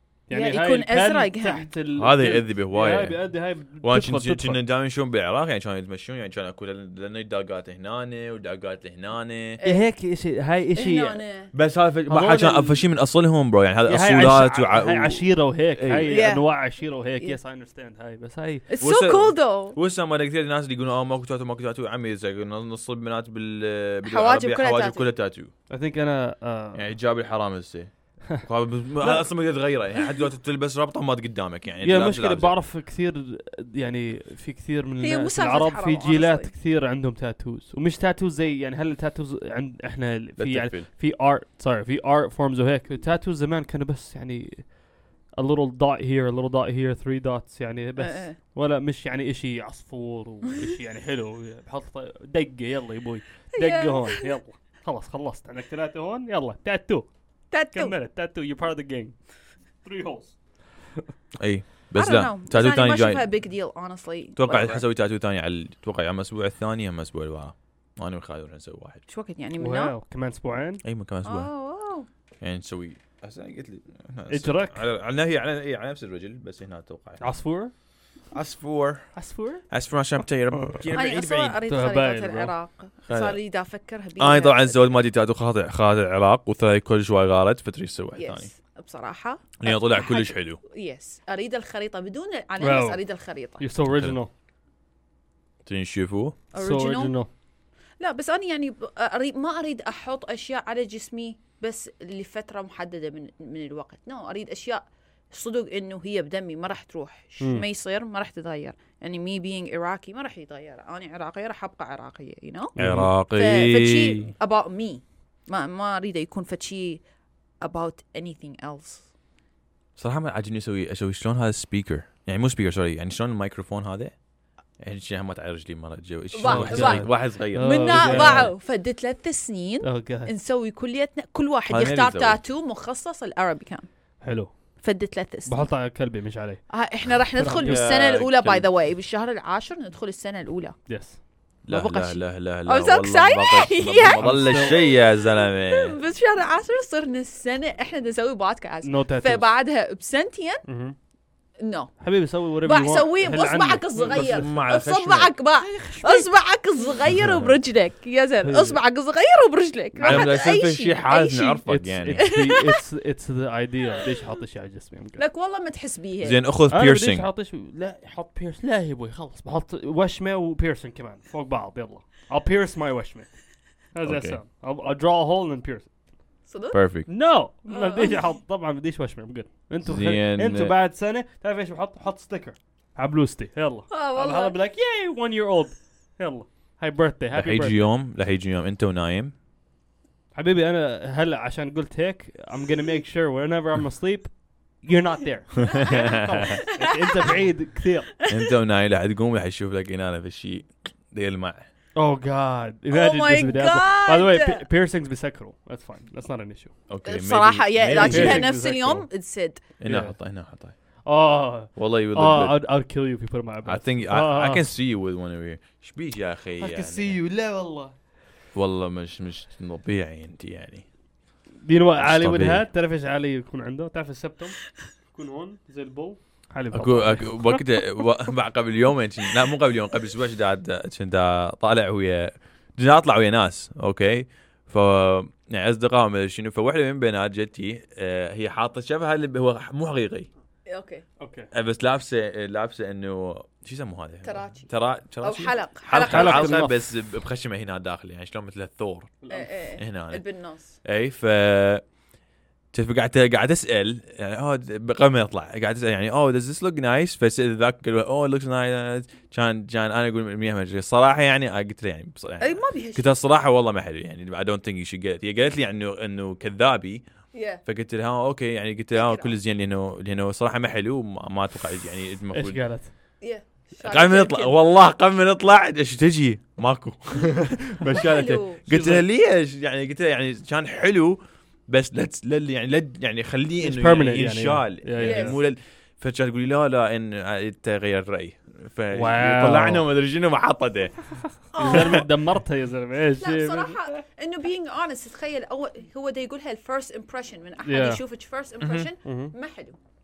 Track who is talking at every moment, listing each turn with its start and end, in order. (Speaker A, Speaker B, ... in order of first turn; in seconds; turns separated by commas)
Speaker A: 0.3-4.6, Speaker B: 0.3-1.7, Speaker C: 1.9-9.6, Speaker B: 9.6-9.9, Speaker A: 9.6-11.2, Speaker B: 10.8-11.5, Speaker C: 11.5-16.2, Speaker A: 12.1-12.8, Speaker A: 13.8-18.7, Speaker B: 16.1-16.5, Speaker B: 18.7-19.8, Speaker C: 18.8-25.5, Speaker B: 24.0-25.1, Speaker A: 25.7-26.9, Speaker C: 26.7-32.5, Speaker A: 29.0-29.2, Speaker A: 31.8-44.8, Speaker B: 35.0-36.5, Speaker C: 40.4-40.9, Speaker A: 45.3-57.1, Speaker B: 48.0-48.4, Speaker B: 53.5-54.3, Speaker B: 57.5-57.9, Speaker A: 57.7-59.2, Speaker A: 59.8-60.4, Speaker C: 61.4-63.3, Speaker B: 61.9-64.8, Speaker C: 64.3-69.0, Speaker B: 69.1-70.0, Speaker A: 69.6-70.8, Speaker C: 70.8-71.5, Speaker B: 71.2-72.1, Speaker C: 72.4-77.2, Speaker A: 74.3-74.8, Speaker A: 77.2-77.7, Speaker C: 78.3-79.1, Speaker A: 79.1-79.6, Speaker C: 79.7-81.6, Speaker B: 80.9-84.8, Speaker A: 81.7-82.5, Speaker C: 83.1-83.4, Speaker C: 84.2-88.5, Speaker B: 88.2-93.6, Speaker C: 89.6-90.6, Speaker A: 92.6-93.0, Speaker A: 93.6-94.3, Speaker C: 93.9-94.2, Speaker C: 95.6-96.4, Speaker B: 96.5-97.2, Speaker A: 96.6-97.3, Speaker B: 98.0-112.8, Speaker A: 107.4-107.7, Speaker A: 112.7-113.1, Speaker C: 112.8-114.3, Speaker B: 113.3-117.0, Speaker B: 117.6-119.1, Speaker C: 120.0-124.1, Speaker C: 124.8-128.5, Speaker B: 126.3-133.9, Speaker A: 126.4-128.5, Speaker A: 129.8-130.3, Speaker C: 131.7-132.4, Speaker A: 134.2-134.5, Speaker B: 134.8-135.7, Speaker A: 135.4-137.8, Speaker B: 136.7-140.8, Speaker C: 137.6-138.7, Speaker A: 140.9-141.2, Speaker C: 141.6-146.0, Speaker B: 141.7-150.6, Speaker A: 144.0-144.8, Speaker A: 148.8-149.4, Speaker A: 150.7-150.9, Speaker B: 151.6-151.9, Speaker A: 152.0-154.5, Speaker B: 152.6-161.6, Speaker C: 154.0-155.3, Speaker A: 155.6-156.3, Speaker C: 157.1-157.5, Speaker A: 158.4-158.8, Speaker C: 160.0-162.3, Speaker A: 160.0-160.3, Speaker A: 161.7-165.2, Speaker B: 162.2-162.8, Speaker B: 165.2-166.4, Speaker C: 166.2-167.3, Speaker A: 166.7-173.3, Speaker A: 173.9-175.9, Speaker C: 174.0-174.4, Speaker B: 176.5-176.8, Speaker C: 176.7-177.1, Speaker A: 177.1-187.8, Speaker B: 177.7-178.2, Speaker C: 179.8-180.7, Speaker B: 183.9-184.6, Speaker C: 187.3-189.3, Speaker A: 190.3-198.1, Speaker B: 195.7-195.9, Speaker C: 195.7-196.6, Speaker B: 196.6-197.3, Speaker B: 198.2-198.5, Speaker C: 198.3-201.6, Speaker A: 201.9-206.7, Speaker B: 202.9-204.7, Speaker C: 206.9-208.5, Speaker B: 207.0-209.6, Speaker A: 207.9-209.1, Speaker C: 209.8-210.7, Speaker A: 209.8-210.1, Speaker A: 211.0-214.7, Speaker C: 211.8-212.6, Speaker C: 213.6-217.2, Speaker A: 216.6-217.9, Speaker C: 218.5-220.8, Speaker A: 221.6-227.6, Speaker C: 222.0-222.6, Speaker C: 226.7-240.3, Speaker B: 240.7-241.0, Speaker A: 241.2-241.5, Speaker C: 241.5-249.1, Speaker B: 244.2-244.7, Speaker B: 245.2-246.6, Speaker A: 245.9-246.8, Speaker A: 249.2-249.5, Speaker B: 249.3-250.8, Speaker C: 249.8-250.2, Speaker C: 250.8-251.8, Speaker C: 252.7-267.0, Speaker B: 262.4-263.2, Speaker B: 267.3-267.6, Speaker C: 267.6-272.6, Speaker B: 268.9-269.4, Speaker A: 272.3-272.9, Speaker B: 273.2-274.6, Speaker C: 273.8-291.0, Speaker B: 277.9-278.6, Speaker A: 278.7-279.0, Speaker A: 283.6-285.4, Speaker B: 285.0-285.4, Speaker A: 288.9-289.9, Speaker B: 291.5-292.1, Speaker A: 291.5-294.0, Speaker C: 291.6-292.1, Speaker B: 293.2-299.8, Speaker A: 297.6-298.0, Speaker C: 298.6-298.9, Speaker A: 299.0-299.3